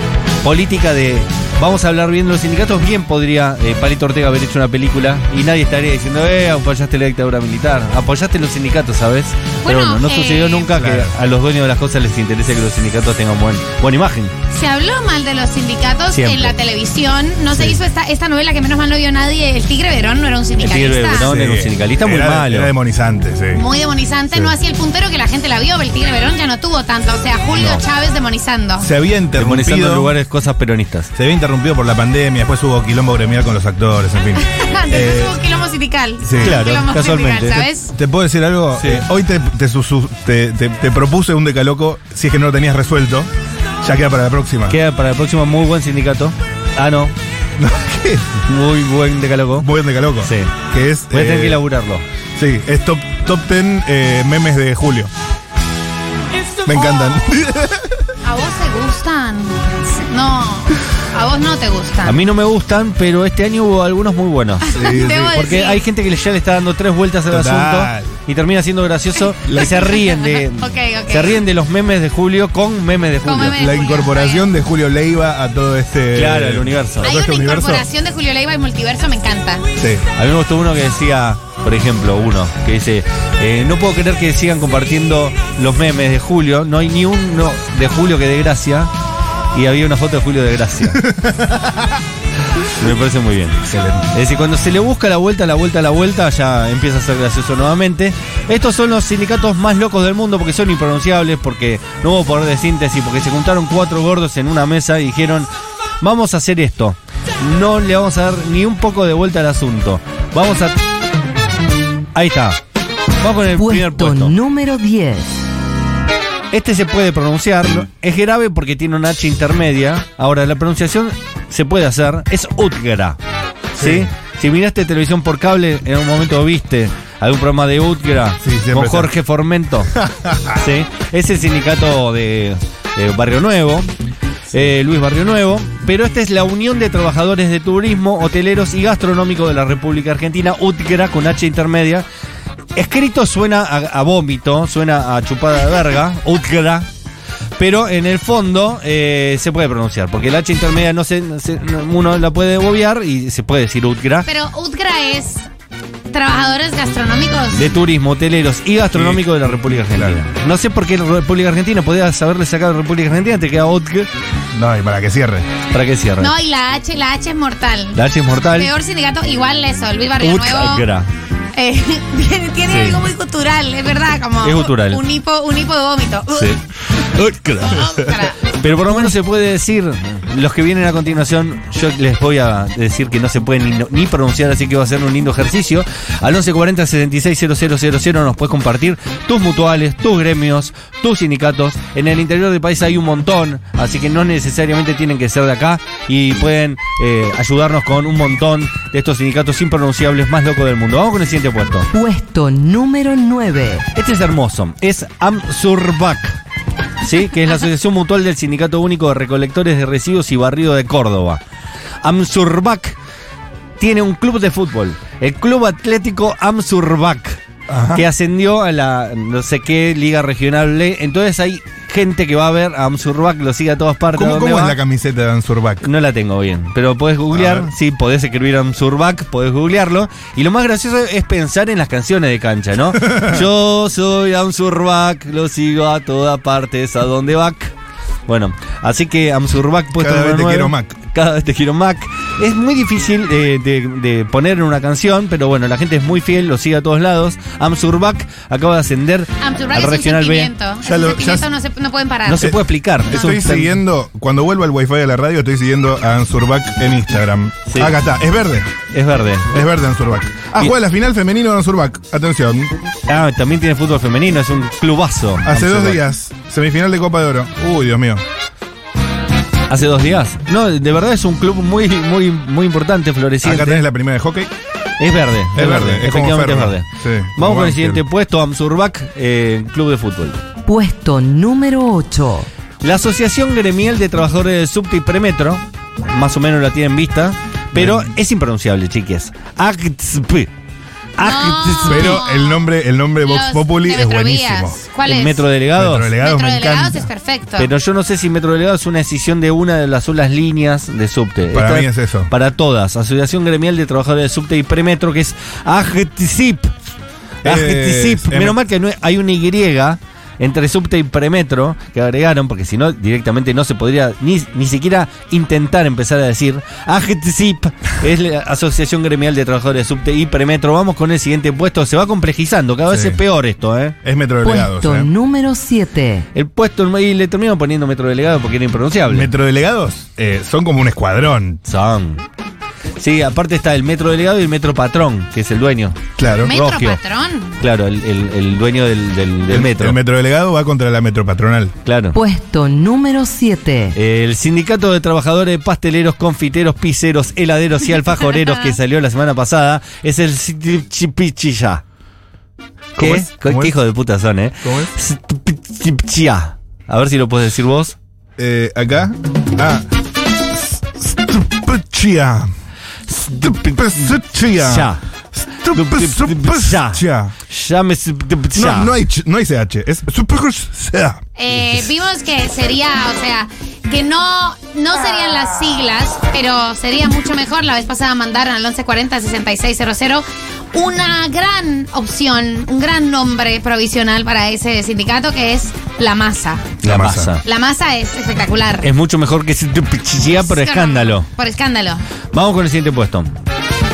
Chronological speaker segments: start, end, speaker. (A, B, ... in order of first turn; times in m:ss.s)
0:00.4-0:14.3 A
0:09.6-0:10.7 B
0:10.7-0:11.2 C
0:14.5-0:21.3 B
0:16.1-0:16.5 A
0:20.6-0:22.7 A
0:21.2-0:23.6 C
0:23.5-0:28.9 B
0:28.8-0:30.1 C
0:29.4-0:31.1 A
0:31.1-0:35.3 C
0:34.4-0:37.9 B
0:36.2-0:36.6 C
0:36.4-0:37.7 A
0:37.9-0:43.3 C
0:38.8-0:39.0 A
0:43.8-0:44.8 C
0:44.7-0:47.1 A
0:47.6-0:48.4 C
0:48.4-0:49.7 A
0:49.6-0:51.6 C
0:50.2-0:50.5 A
0:51.1-0:52.0 A
0:52.4-0:55.1 C
0:56.6-0:57.2 B
0:56.6-0:58.1 C
0:58.2-1:02.2 B
1:02.0-1:04.7 A
1:04.7-1:05.8 B
1:04.7-1:05.4 C
1:05.3-1:13.6 A
1:07.3-1:08.1 C
1:09.5-1:11.4 B
1:13.2-1:14.5 B
1:13.6-1:17.8 C
1:16.1-1:17.1 A
1:17.0-1:19.6 B
1:19.8-1:20.0 C
1:20.2-1:28.9 A
1:29.5-1:31.0 A
1:31.0-1:32.0 C
1:32.8-1:45.5 A
1:33.6-1:34.1 C
1:46.0-1:50.8 A
1:52.1-1:52.6 A
1:53.2-1:54.3 A
1:53.5-1:55.4 D
1:56.5-2:03.2 A
2:03.7-2:04.1 C
2:03.8-2:10.0 A
2:08.4-2:09.1 C
2:09.9-2:10.6 C
2:10.5-2:13.9 A
2:14.5-2:22.0 A
2:22.7-2:26.9 A
2:27.6-2:34.3 A
2:34.2-2:35.4 B
2:36.1-2:37.7 B
2:37.5-2:44.1 A
2:38.9-2:39.2 C
2:39.9-2:40.2 C
2:44.5-2:45.5 C
2:45.7-2:46.3 A
2:46.2-2:50.9 B
2:47.9-2:48.7 A
2:50.2-2:51.1 A
2:51.6-2:56.6 B
2:52.6-2:53.0 A
2:54.4-2:55.0 A
2:56.3-2:57.9 A
2:57.6-2:58.5 B
2:58.4-3:21.9 A
3:21.9-3:23.9 D
3:23.9-3:26.4 A
3:27.0-3:31.4 A
3:32.0-3:33.0 A
3:33.8-3:37.4 A
3:37.7-3:38.0 C
3:37.9-3:44.8 A
3:44.1-3:45.9 C
3:45.8-3:57.7 A
3:47.3-3:47.7 C
3:53.0-3:53.4 C
3:58.3-4:10.5 A
4:00.0-4:01.0 C
4:09.4-4:12.5 B
4:10.8-4:11.5 C
4:12.2-4:13.8 A
4:12.4-4:18.7 C
4:17.7-4:17.9 A
4:18.9-4:19.5 A
4:19.5-4:22.7 C
4:23.1-4:26.0 A
4:25.4-4:28.2 C
4:29.7-4:33.8 A
4:33.4-4:34.5 C
4:35.0-4:40.4 A
4:35.5-4:38.0 C
4:40.7-4:42.5 D
4:42.8-4:50.5 A
4:47.7-4:48.1 C
4:51.2-4:52.2 A
4:51.2-4:55.5 B
4:51.9-4:54.8 C
4:55.0-4:56.1 A
4:55.8-4:57.1 C
4:56.2-4:57.7 B
4:57.6-5:06.7 A
5:01.5-5:02.3 C
5:07.4-5:08.6 C
5:07.4-5:24.0 A
5:22.9-5:23.2 C
5:24.0-5:25.1 C
5:24.4-5:26.3 D
5:26.3-5:29.3 A
5:29.1-5:31.6 C
5:31.6-5:32.2 A
5:33.0-5:37.0 A
5:36.2-5:36.5 C
5:36.4-5:37.6 B
5:37.6-5:40.0 A
5:39.5-5:41.8 C
5:41.8-5:42.2 A
5:42.1-5:44.0 D
5:43.9-5:51.8 A
5:53.0-5:53.8 C
5:53.0-5:58.0 A
5:54.6-5:54.9 C
5:58.4-5:59.8 C
6:00.5-6:02.5 C
6:03.1-6:07.3 C
6:04.6-6:05.0 A
6:05.7-6:09.0 A
6:08.6-6:11.2 C
6:11.4-6:26.7 B
6:26.8-6:27.4 A
6:26.8-6:27.3 C
6:27.4-6:28.9 B
6:28.8-6:31.3 A
6:30.4-6:32.0 B
6:32.3-6:33.3 A